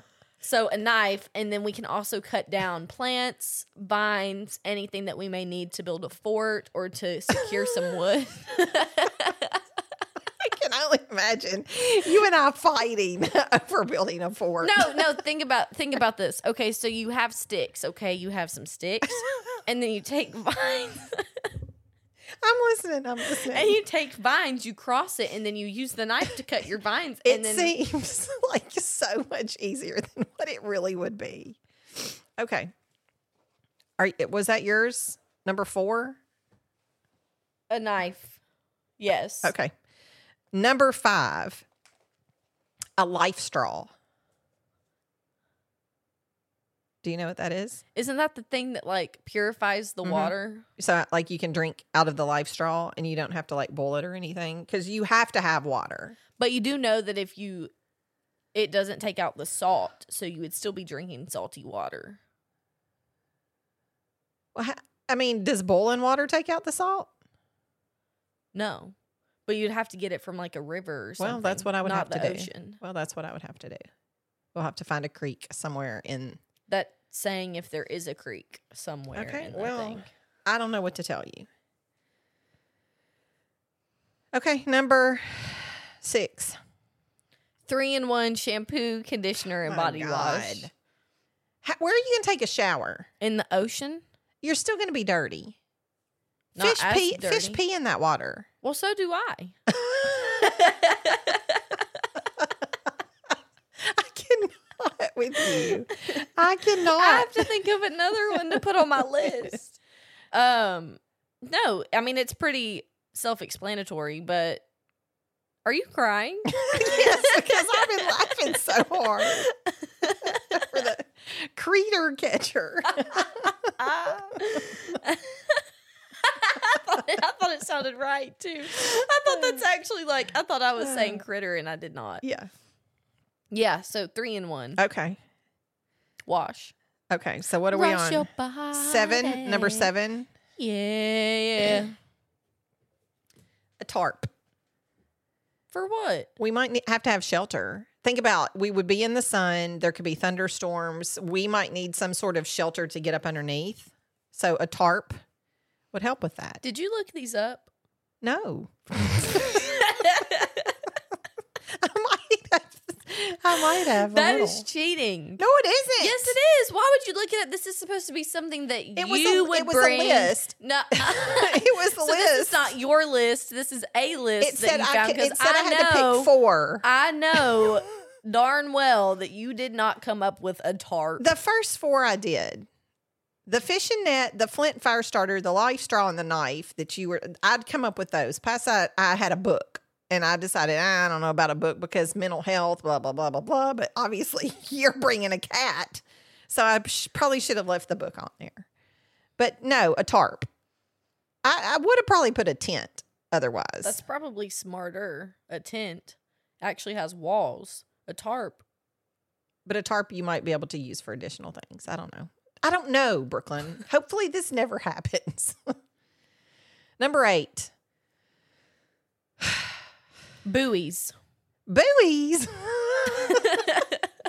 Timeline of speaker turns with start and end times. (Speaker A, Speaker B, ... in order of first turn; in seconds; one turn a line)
Speaker A: 0.4-9.6
Speaker B: 10.4-15.1
Speaker A: 14.6-21.5
Speaker B: 22.4-23.8
Speaker A: 23.3-27.7
Speaker B: 27.2-32.7
Speaker B: 34.0-36.2
Speaker A: 37.7-38.4
Speaker A: 39.0-39.5
Speaker B: 39.4-39.7
Speaker B: 40.5-41.6
Speaker B: 43.0-43.9
Speaker B: 47.0-47.8
Speaker A: 47.9-50.7
Speaker B: 50.0-56.2
Speaker A: 56.4-57.7
Speaker A: 58.5-62.2
Speaker B: 64.5-67.1
Speaker A: 68.5-68.9
Speaker A: 69.5-72.8
Speaker B: 71.2-73.8
Speaker B: 74.5-76.4
Speaker A: 76.7-80.1
Speaker B: 79.1-81.5
Speaker B: 84.3-86.6
Speaker A: 87.7-90.7
Speaker B: 89.6-90.7
Speaker B: 91.6-93.1
Speaker A: 93.2-94.0
Speaker B: 94.4-95.5
Speaker A: 96.5-97.6
Speaker B: 96.6-98.5
Speaker A: 98.6-101.8
Speaker B: 99.8-100.7
Speaker B: 103.8-107.4
Speaker A: 105.6-106.1
Speaker A: 106.9-109.8
Speaker B: 108.3-108.6
Speaker B: 109.2-109.5
Speaker A: 110.3-114.6
Speaker A: 115.6-120.7
Speaker B: 116.7-119.5
Speaker B: 120.5-123.7
Speaker A: 123.8-125.6
Speaker A: 126.2-132.2
Speaker B: 128.8-129.6
Speaker B: 130.8-131.2
Speaker B: 132.2-132.5
Speaker A: 133.5-134.8
Speaker B: 134.8-135.2
Speaker A: 136.3-136.7
Speaker B: 137.1-140.3
Speaker A: 137.7-139.9
Speaker A: 140.6-141.9
Speaker B: 143.8-144.3
Speaker A: 145.7-146.3
Speaker B: 146.4-155.2
Speaker B: 155.9-156.6
Speaker A: 156.6-157.7
Speaker B: 158.2-160.1
Speaker A: 159.3-160.7
Speaker B: 161.7-164.7
Speaker A: 163.9-165.4
Speaker B: 165.4-166.3
Speaker A: 166.0-176.3
Speaker B: 168.9-172.7
Speaker B: 174.4-176.8
Speaker A: 176.8-181.3
Speaker B: 181.2-182.7
Speaker B: 183.5-198.7
Speaker B: 199.4-200.5
Speaker B: 201.4-204.0
Speaker A: 203.8-208.6
Speaker B: 209.6-215.7
Speaker B: 217.0-217.7
Speaker B: 219.4-219.7
Speaker A: 220.4-221.1
Speaker B: 221.7-223.8
Speaker A: 223.1-224.0